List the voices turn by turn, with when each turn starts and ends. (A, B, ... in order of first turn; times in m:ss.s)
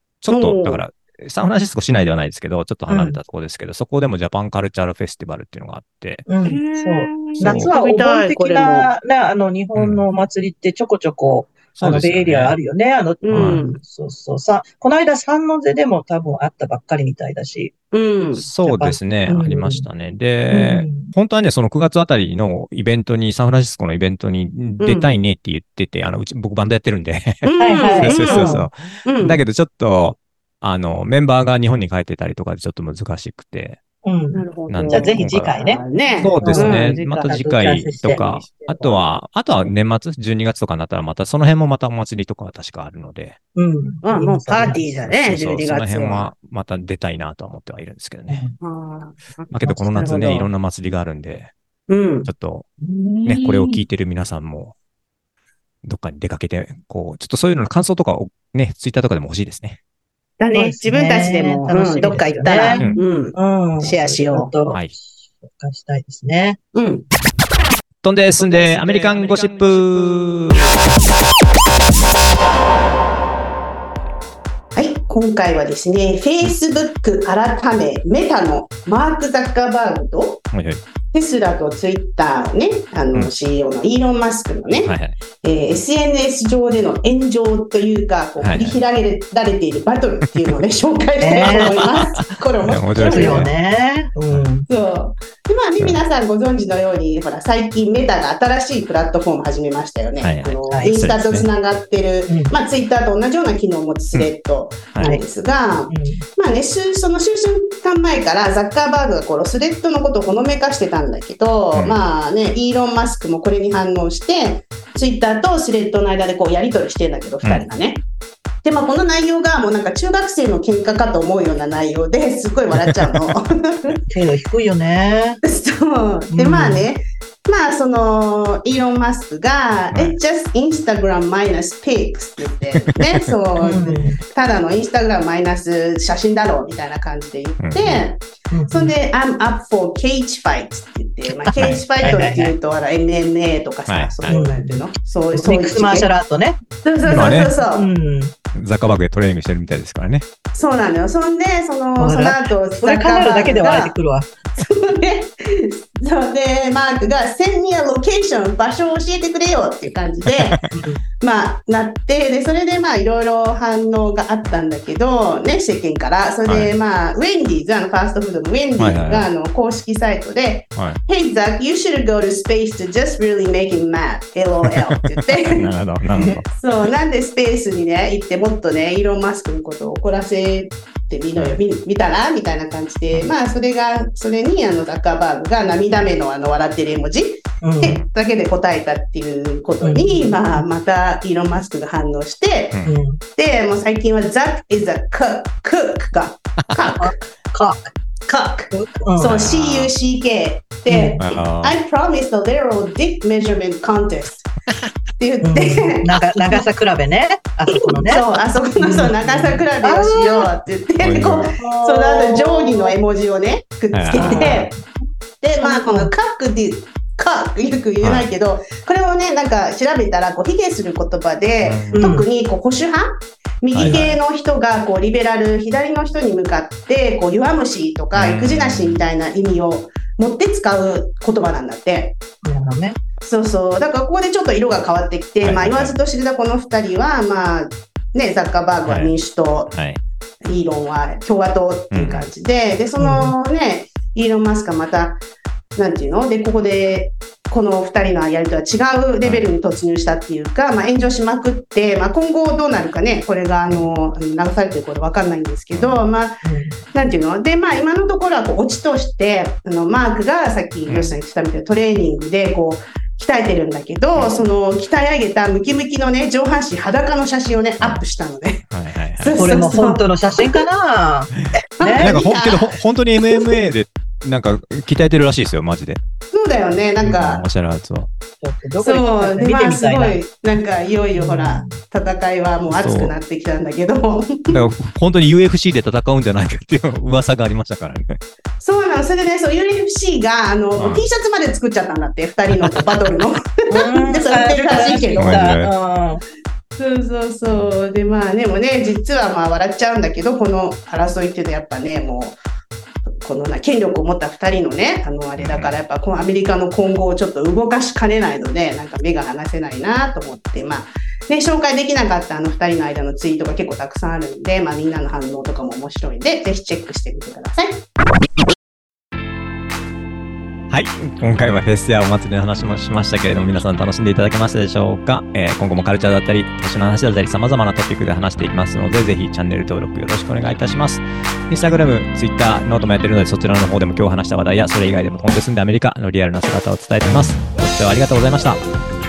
0:00.2-0:06.2 A
0:00.3-0:00.8 B
0:02.9-0:03.2 C
0:06.2-0:17.7 C
0:06.4-0:08.9 B
0:07.3-0:07.7 A
0:09.7-0:10.0 A
0:11.8-0:12.6 A
0:13.2-0:13.8 B
0:13.3-0:13.7 A
0:17.9-0:18.4 B
0:18.4-0:33.8 A
0:18.6-0:19.8 C
0:20.5-0:21.1 C
0:24.8-0:25.2 B
0:27.4-0:29.4 B
0:27.6-0:28.6 C
0:34.0-0:38.3 C
0:34.3-0:39.2 B
0:34.7-0:35.5 A
0:36.1-0:43.4 A
0:43.5-0:44.9 C
0:44.0-0:46.3 B
0:45.0-0:48.4 A
0:48.3-0:48.6 C
0:48.6-0:50.5 B
0:49.5-0:51.5 A
0:51.9-0:53.8 B
0:52.2-0:52.7 A
0:53.2-0:54.7 A
0:55.8-0:59.8 A
1:00.4-1:04.5 B
1:00.5-1:06.6 C
1:02.7-1:03.0 A
1:06.7-1:07.0 B
1:08.0-1:10.7 A
1:08.4-1:09.2 C
1:14.7-1:20.4 B
1:20.5-1:20.8 A
1:21.1-1:33.4 B
1:24.8-1:25.2 A
1:28.4-1:28.8 A
1:31.2-1:31.8 C
1:31.4-1:31.9 A
1:32.6-1:33.5 A
1:33.0-1:34.6 C
1:34.7-1:58.0 B
1:40.2-1:41.5 A
1:40.7-1:40.9 C
1:42.3-1:42.5 C
1:45.9-1:46.2 C
1:58.6-2:04.0 B
2:04.1-2:05.4 C
2:05.5-2:26.1 B
2:06.3-2:06.9 C
2:12.8-2:13.2 A
2:13.6-2:14.2 C
2:17.6-2:18.0 A
2:18.5-2:18.9 C
2:21.4-2:22.5 C
2:21.6-2:22.3 A
2:23.9-2:24.4 A
2:24.3-2:28.3 C
2:26.8-2:27.9 B
2:27.1-2:27.5 A
2:28.5-2:30.2 A
2:30.5-2:34.0 B
2:32.0-2:34.3 C
2:34.5-2:40.6 B
2:40.7-2:41.0 C
2:41.2-2:55.7 B
2:46.4-2:46.7 A
2:48.8-2:49.3 A
2:50.7-2:51.0 A
2:55.5-2:56.5 A
2:56.4-3:12.8 B
3:07.6-3:08.0 C
3:09.8-3:10.6 C
3:12.8-3:13.2 C
3:13.4-3:17.1 B
3:17.0-3:17.9 C
3:18.2-3:24.5 B
3:18.7-3:19.4 C
3:19.2-3:19.9 A
3:20.9-3:21.2 C
3:21.2-3:21.8 A
3:25.2-3:26.7 B
3:25.4-3:30.5 C
3:27.7-3:34.7 B
3:31.0-3:31.5 A
3:31.5-3:33.0 C
3:33.9-3:34.6 A
3:34.1-3:34.8 C
3:35.4-3:52.1 B
3:35.6-3:36.1 C
3:38.0-3:38.3 A
3:41.6-3:42.1 A
3:41.9-3:42.3 C
3:43.7-3:44.2 A
3:48.1-3:49.0 A
3:52.4-3:53.0 C
3:53.2-3:59.7 B
3:55.4-3:55.9 A
3:58.8-3:59.1 A
3:59.7-4:00.0 A
4:00.4-4:05.2 B
4:01.9-4:02.3 A
4:03.0-4:03.3 C
4:05.8-4:16.4 B
4:09.2-4:09.5 A
4:13.6-4:13.9 C
4:15.7-4:16.0 A
4:16.4-4:16.8 C
4:16.9-4:28.6 B
4:20.9-4:21.2 A
4:24.1-4:24.4 A
4:27.8-4:28.0 A
4:28.7-4:29.4 A
4:29.2-4:30.6 B
4:29.4-4:32.1 C
4:31.8-4:32.8 B
4:32.0-4:36.0 A
4:36.3-4:37.4 B
4:37.0-4:38.1 A
4:38.4-4:40.2 C
4:38.8-4:44.6 B
4:41.1-4:41.8 C
4:42.7-4:43.2 A
4:44.5-4:48.2 A
4:48.6-4:55.4 B
4:50.8-4:51.0 A
4:53.7-4:56.2 C
4:55.2-4:55.7 A
4:56.8-5:02.4 B
4:57.5-4:57.8 A
5:03.0-5:17.8 B
5:05.4-5:05.8 A
5:20.7-5:38.6 A